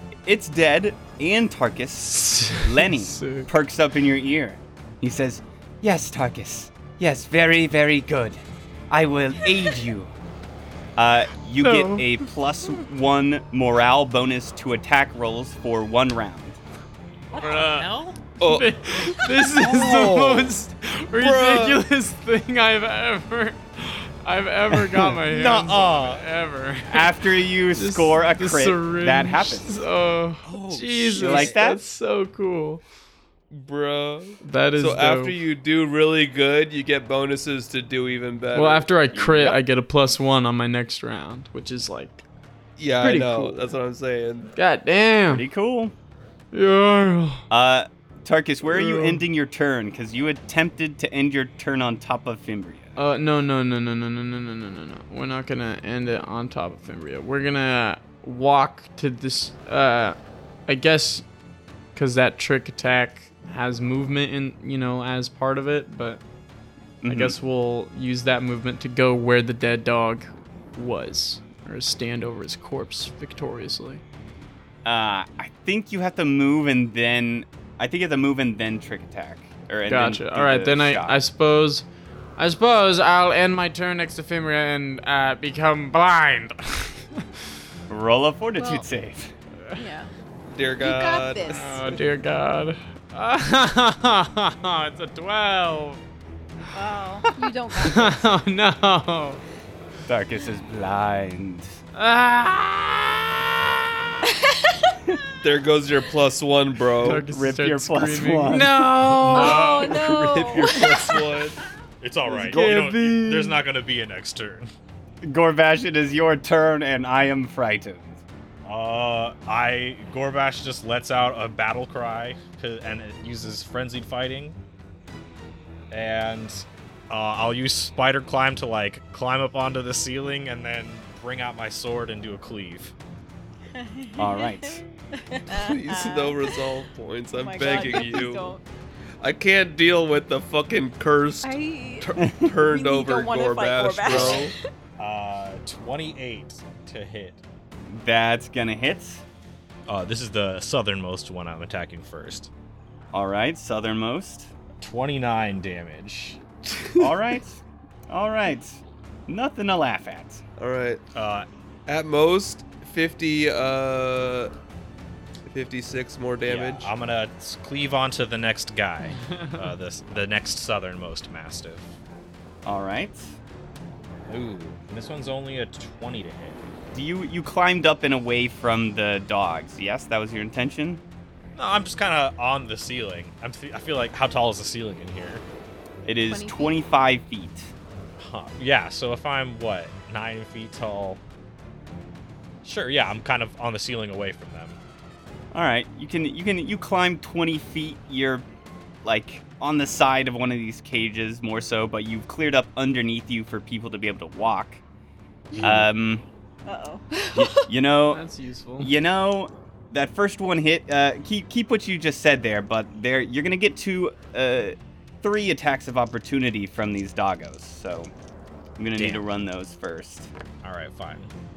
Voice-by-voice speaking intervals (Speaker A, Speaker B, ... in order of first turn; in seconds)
Speaker A: 0.2-10.1, 10.9-16.6, 24.7-25.2, 26.9-29.8, 31.1-31.8, 39.1-39.6, 45.3-45.9, 47.5-52.9, 67.0-67.3, 74.8-81.2, 87.9-89.3, 100.0-101.7, 107.2-108.9, 115.2-118.2, 134.2-134.8, 147.9-149.2, 153.1-154.5, 157.0-160.4, 172.6-173.3, 176.9-181.0, 186.0-187.7, 195.5-198.4, 199.0-204.8, 205.6-206.2, 207.3-208.2, 208.8-218.1, 218.8-220.3
Speaker B: 2.3-3.5, 11.6-12.2, 17.3-27.1, 27.7-32.8, 34.4-35.3, 38.5-42.2, 43.0-43.8, 44.5-45.5, 46.5-47.4, 48.6-49.2, 53.0-61.2, 61.9-66.2, 67.1-74.0, 79.9-81.8, 82.4-87.2, 91.5-96.0, 97.8-99.4, 101.9-103.2, 107.0-109.7, 112.2-113.6, 169.0-169.7, 208.1-208.9
Speaker C: 17.3-18.2, 25.2-26.2, 30.4-31.6, 109.1-110.5, 112.0-114.7, 118.6-124.6, 125.9-132.9, 144.1-144.5, 145.0-147.4, 149.9-152.5, 154.8-156.4, 161.1-161.5, 166.5-171.9, 174.3-176.6, 181.5-185.4, 188.2-191.2, 192.6-194.8, 205.5-205.9, 218.9-219.2, 220.6-221.3
Speaker D: 18.4-20.5, 21.1-21.8, 33.5-38.9, 42.8-44.5, 90.5-92.0, 105.4-107.2, 110.1-111.6, 135.5-138.6, 139.2-144.5, 156.7-157.1, 160.6-161.0, 161.9-164.5, 165.4-166.9
Speaker E: 88.6-88.9, 89.7-90.1, 90.8-91.8, 96.7-98.4, 104.2-105.0, 109.3-111.1, 133.7-136.7, 137.3-138.6, 141.4-144.6, 186.3-186.8, 206.7-207.7